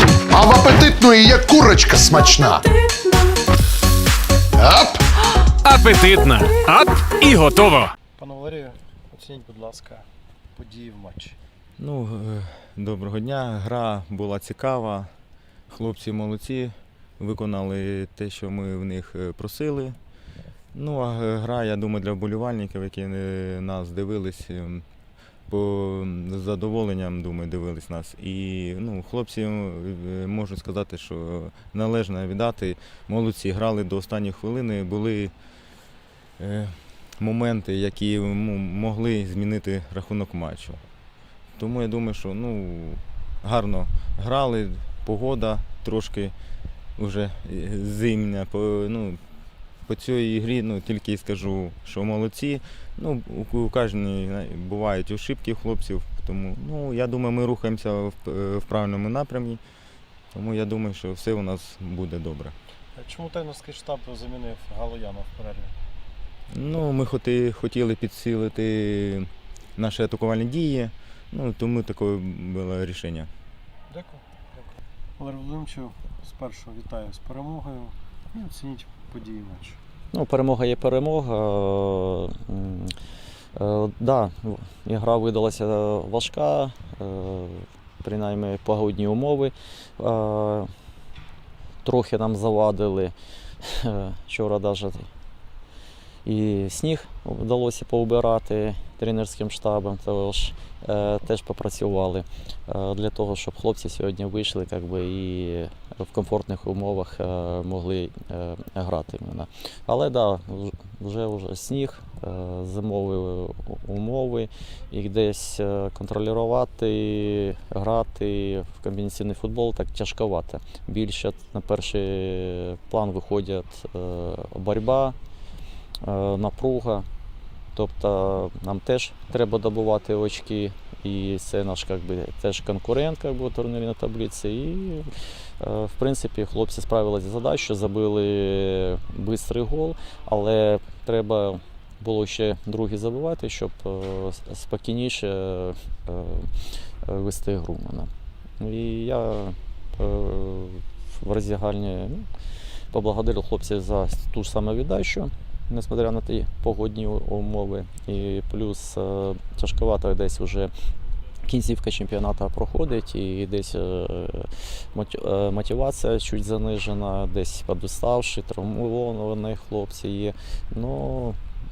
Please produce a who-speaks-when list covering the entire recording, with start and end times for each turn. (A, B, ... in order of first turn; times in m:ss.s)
0:00.3-0:02.6 A
0:04.6-0:05.0 A
0:05.6-0:07.9 B
0:08.2-0:10.0 C
0:10.6-0:11.4 C
0:11.8-0:15.1 D
0:15.7-0:20.0 D
0:20.7-0:24.8 D
0:25.5-0:35.3 D
0:36.4-0:40.8 D
0:41.6-0:46.3 D
0:47.0-0:49.2 D
0:49.9-0:59.6 D
1:00.3-1:02.5 D
1:02.9-1:05.7 C
1:06.5-1:13.3 D
1:13.9-1:14.2 C
1:15.2-1:19.8 C
1:20.1-1:22.9 E
1:23.5-1:30.7 E
1:31.8-1:35.1 E
1:36.2-2:05.2 E
2:06.0-2:07.0 E
2:07.7-2:15.1 E
2:15.6-2:26.5 E
2:27.0-2:32.3 E
2:32.9-2:40.7 E
2:41.4-2:51.4 E